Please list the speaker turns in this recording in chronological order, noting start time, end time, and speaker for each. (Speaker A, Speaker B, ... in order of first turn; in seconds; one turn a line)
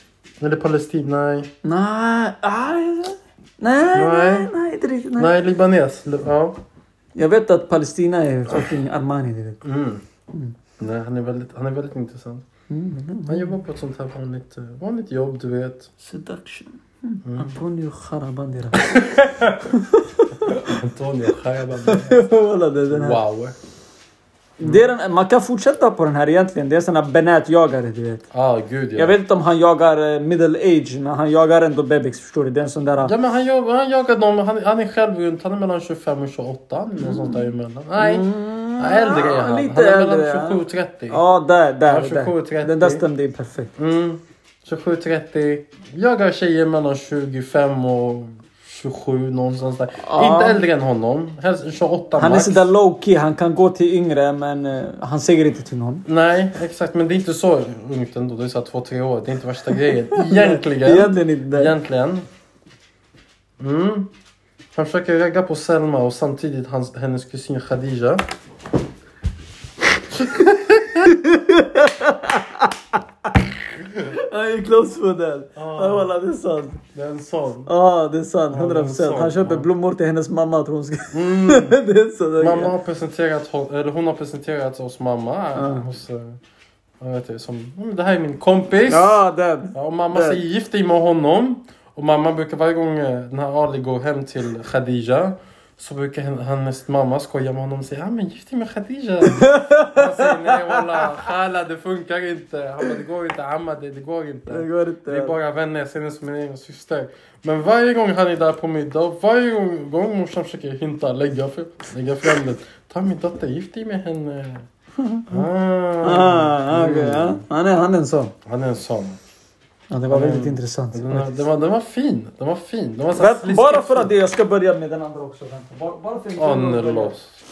Speaker A: 0.4-1.5
Speaker B: 1.6-5.3
Speaker A: 3.9-4.5
Speaker A: 5.2-6.6
Speaker B: 7.2-9.6
Speaker A: 9.6-10.0
Speaker A: 10.8-12.4
Speaker B: 12.7-13.5
Speaker A: 13.3-15.9
Speaker B: 16.0-20.7
Speaker A: 17.2-17.6
Speaker A: 18.9-19.6
Speaker A: 20.4-22.2
Speaker B: 21.8-23.2
Speaker A: 22.9-23.6
Speaker B: 24.6-28.2
Speaker A: 28.3-29.1
Speaker B: 28.9-33.1
Speaker A: 33.0-41.2
Speaker B: 37.0-37.4
Speaker B: 38.0-43.7
Speaker A: 41.9-43.0
Speaker A: 43.8-52.7
Speaker B: 50.0-50.6
Speaker B: 52.2-56.0
Speaker A: 56.0-62.2
Speaker B: 60.1-61.7
Speaker A: 63.6-64.1
Speaker A: 64.7-68.2
Speaker B: 70.1-76.8
Speaker A: 75.5-76.1
Speaker A: 76.9-77.7
Speaker B: 77.7-82.7
Speaker A: 78.5-79.7
Speaker A: 81.1-81.8
Speaker A: 82.4-86.4
Speaker B: 85.5-85.8
Speaker A: 87.0-89.2
Speaker B: 88.9-90.4
Speaker A: 89.7-114.7
Speaker B: 99.2-101.2
Speaker B: 104.5-105.3
Speaker B: 115.0-115.4
Speaker A: 115.3-117.4
Speaker B: 116.0-118.3
Speaker A: 118.5-119.2
Speaker B: 119.9-121.4
Speaker A: 120.1-124.1
Speaker B: 123.1-127.1
Speaker A: 126.3-127.3